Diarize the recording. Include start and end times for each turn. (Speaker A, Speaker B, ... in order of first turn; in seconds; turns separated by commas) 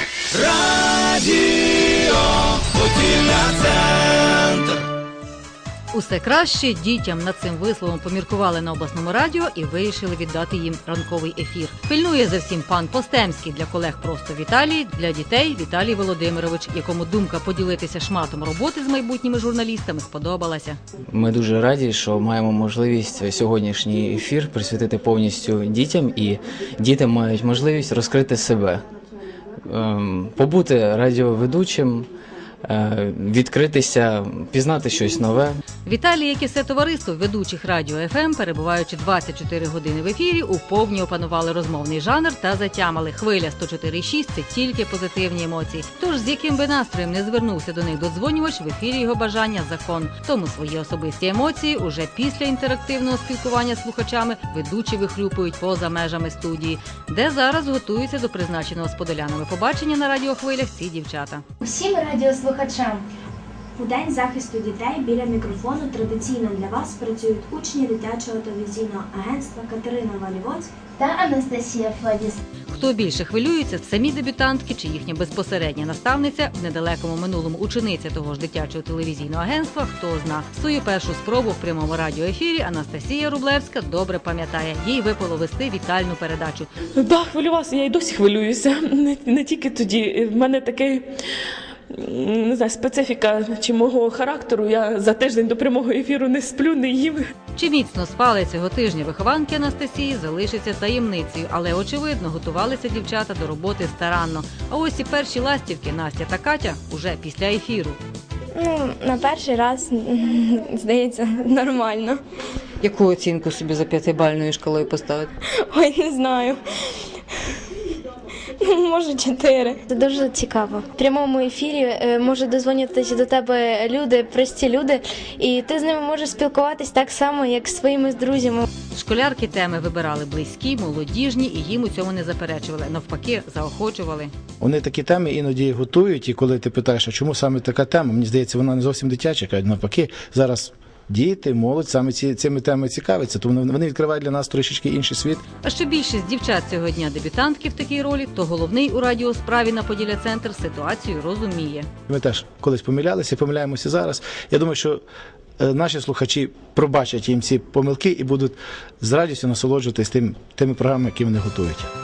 Speaker A: 5.9-20.8, Speaker B: 21.1-28.8, Speaker B: 29.7-32.1, Speaker B: 32.6-35.6, Speaker A: 35.9-61.4, Speaker C: 61.8-62.8, Speaker D: 63.8-70.7, Speaker C: 71.2-72.0, Speaker A: 72.7-86.7, Speaker E: 87.0-91.1, Speaker E: 91.9-97.2, Speaker A: 97.5-108.0, Speaker C: 108.6-112.2, Speaker A: 112.8-115.3, Speaker C: 115.7-116.6, Speaker C: 118.6-128.7, Speaker A: 128.9-134.3, Speaker F: 134.6-145.4, Speaker A: 145.6-151.9, Speaker F: 152.1-155.0, Speaker F: 155.6-161.9